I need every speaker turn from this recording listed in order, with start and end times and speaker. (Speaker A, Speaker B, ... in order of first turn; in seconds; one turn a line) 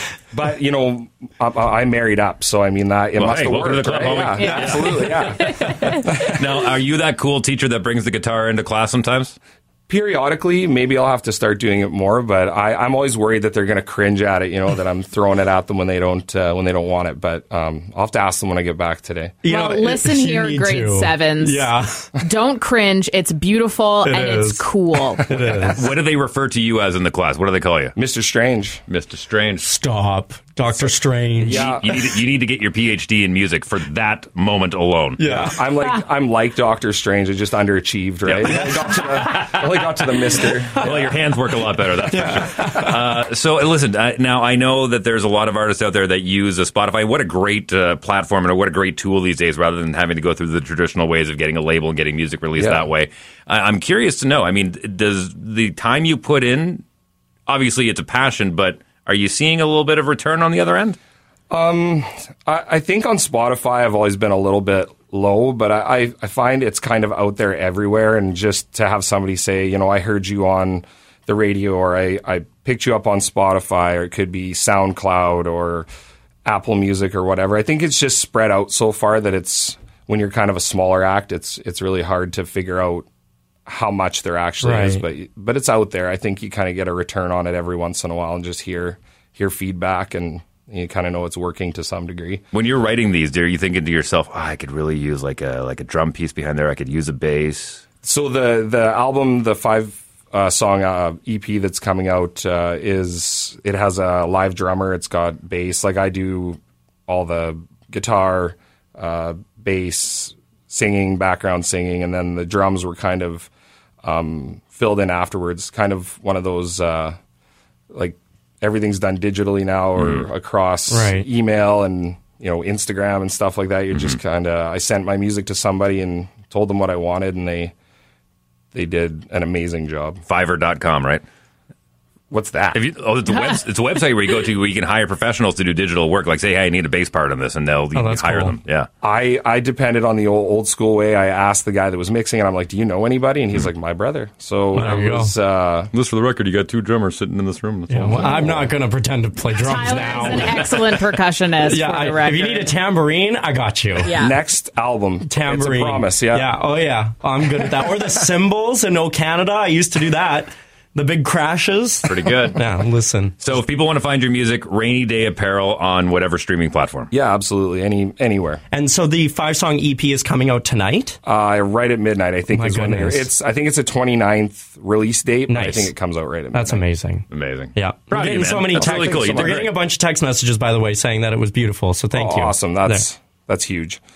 Speaker A: 0.3-5.4
Speaker B: 3.2-9.4
Speaker C: 4.4-6.2
Speaker A: 9.9-19.4
Speaker D: 19.4-22.1
Speaker C: 19.4-25.4
Speaker D: 24.1-24.6
Speaker D: 25.3-25.8
Speaker B: 25.7-28.0
Speaker A: 28.0-28.8
Speaker B: 28.9-29.6
Speaker D: 29.6-31.8
Speaker B: 31.4-35.4
Speaker A: 31.5-31.9
Speaker D: 35.2-35.6
Speaker A: 35.3-40.9
Speaker B: 38.2-39.8
Speaker D: 38.5-39.3
Speaker B: 40.8-56.8
Speaker D: 42.1-43.0
Speaker A: 52.6-52.8
Speaker B: 57.5-61.0
Speaker A: 61.5-75.9
Speaker A: 76.5-83.1
Speaker A: 83.7-92.4
Speaker D: 84.6-85.0
Speaker B: 92.5-97.8
Speaker A: 98.0-113.5
Speaker A: 114.0-117.2
Speaker A: 117.9-127.7
Speaker B: 120.0-120.3
Speaker D: 120.9-121.3
Speaker B: 123.9-124.2
Speaker A: 128.7-130.2
Speaker B: 130.3-131.2
Speaker A: 132.3-132.8
Speaker B: 132.7-138.9
Speaker D: 137.9-138.6
Speaker A: 139.0-145.9
Speaker D: 144.7-145.3
Speaker B: 145.9-148.7
Speaker D: 147.9-150.7
Speaker C: 149.6-152.7
Speaker B: 150.3-150.6
Speaker D: 151.6-154.2
Speaker C: 154.0-154.4
Speaker A: 154.1-156.5
Speaker D: 155.3-163.6
Speaker B: 162.1-162.6
Speaker B: 163.4-167.1
Speaker A: 167.1-168.6
Speaker D: 168.7-171.2
Speaker A: 171.3-176.8
Speaker D: 172.5-173.3
Speaker D: 175.5-175.9
Speaker D: 176.5-183.1
Speaker B: 177.3-179.7
Speaker A: 178.8-179.5
Speaker A: 182.1-184.0